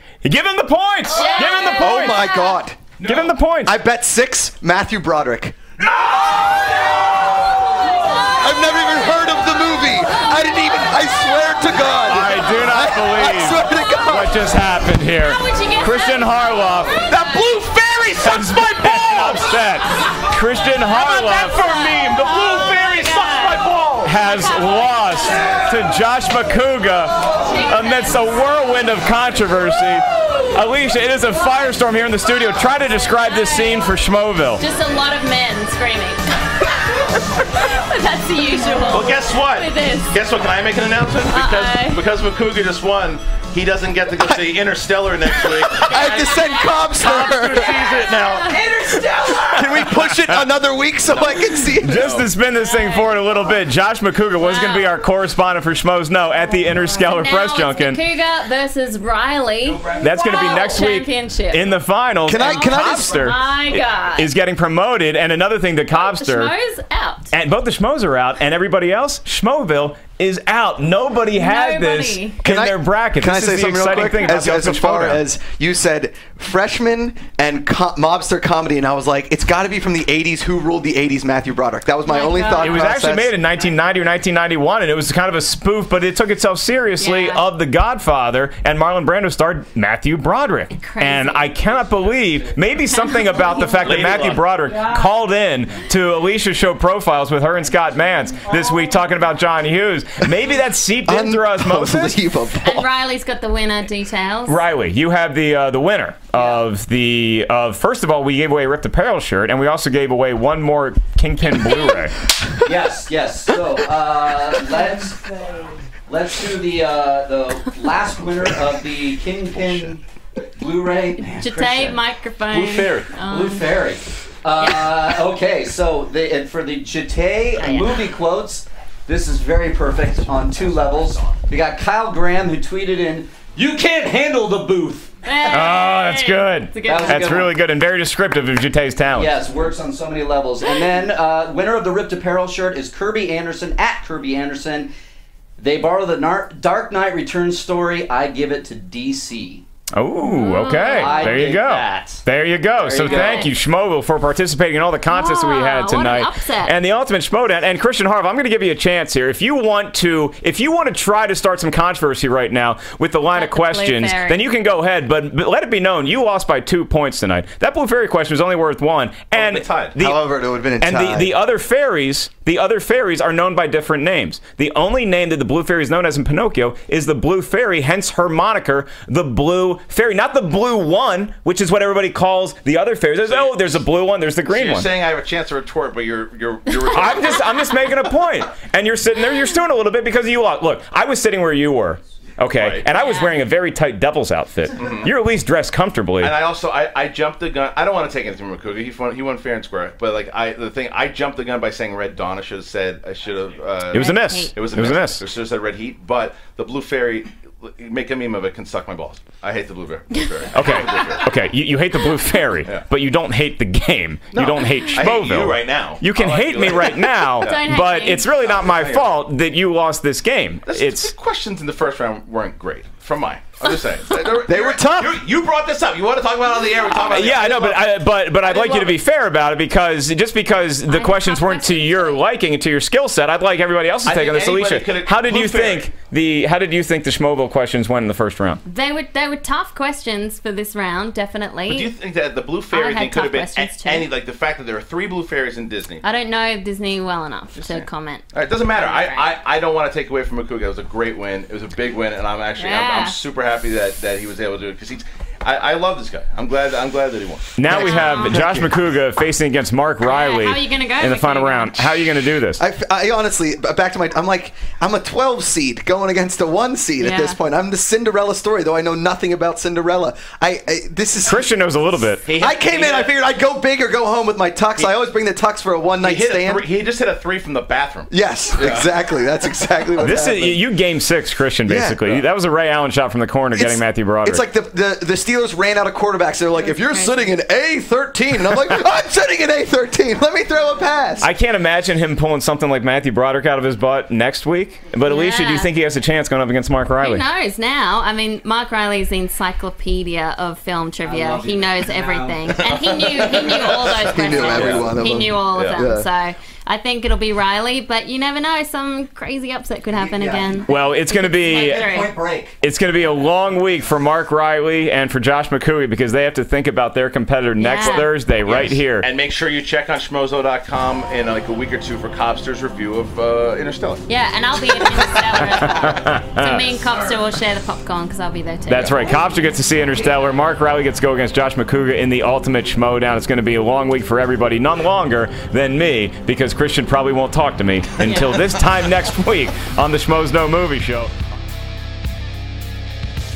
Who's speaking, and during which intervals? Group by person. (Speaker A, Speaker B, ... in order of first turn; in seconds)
Speaker A: 0.2-2.2, 3.0-3.8, 12.0-17.1, 18.2-22.2, 24.0-34.6, 51.8-58.0, 59.9-66.5, 67.3-75.2, 82.6-102.2, 104.5-112.1, 135.4-139.4, 149.9-170.2, 170.8-184.9, 186.8-196.4, 203.9-205.2, 210.5-221.1, 226.9-238.6, 257.6-262.6, 271.2-272.3, 280.0-284.4, 291.2-297.2, 310.6-311.9, 312.6-319.1, 325.6-326.6, 328.7-341.1
Speaker B: 1.1-2.6, 7.9-8.8, 10.9-12.3, 15.0-17.6, 20.9-23.7, 24.2-25.5, 27.4-28.6, 33.3-33.8, 34.6-36.5, 37.5-40.2, 41.3-42.0, 45.9-46.8, 48.2-48.7, 52.6-53.2, 54.4-54.9, 57.1-61.7, 62.4-64.3, 65.9-67.3, 71.3-72.4, 82.1-82.8, 87.0-87.4, 90.7-91.6, 92.9-93.8, 102.6-104.6, 121.3-123.8, 124.6-125.0, 127.6-128.0, 135.2-137.3, 150.2-151.0, 153.0-153.5, 155.1-156.7, 163.3-164.4, 193.0-193.3, 203.9-204.6, 217.4-218.3, 230.9-232.2, 238.7-241.9, 242.7-244.1, 246.0-249.3, 252.6-253.2, 257.8-258.4, 260.0-261.9, 267.0-267.4, 286.6-287.3, 295.0-295.7, 297.0-312.1, 317.6-318.1, 324.1-329.1
Speaker C: 1.6-2.9, 3.6-5.5, 8.3-14.5, 17.1-19.4, 45.7-47.8, 49.3-52.1, 62.2-63.3, 72.4-83.3, 101.0-102.9, 119.5-119.9, 170.0-171.3, 224.4-225.2, 257.7-258.8, 262.6-271.4, 272.4-276.6, 278.1-280.6, 281.6-282.0, 283.5-291.3, 304.0-306.1
Speaker D: 3.0-3.4, 21.9-24.2, 38.9-48.6, 51.1-52.3, 93.6-94.5, 122.5-123.2, 169.3-169.9, 183.2-183.6, 184.4-187.7, 192.5-192.9, 194.8-195.1, 196.2-211.3, 214.3-219.2, 220.7-229.0, 234.0-235.9, 241.7-246.0, 247.6-257.6, 272.2-273.1, 276.0-278.9, 302.6-303.9, 304.4-304.9, 305.5-305.9, 318.3-324.0, 328.7-329.1
Speaker E: 112.6-120.0, 120.6-122.0, 123.2-135.1, 136.8-137.6, 139.1-144.9, 145.6-149.6, 150.4-153.5, 301.0-302.6, 303.2-303.7, 304.2-304.8, 309.9-310.8, 311.7-312.6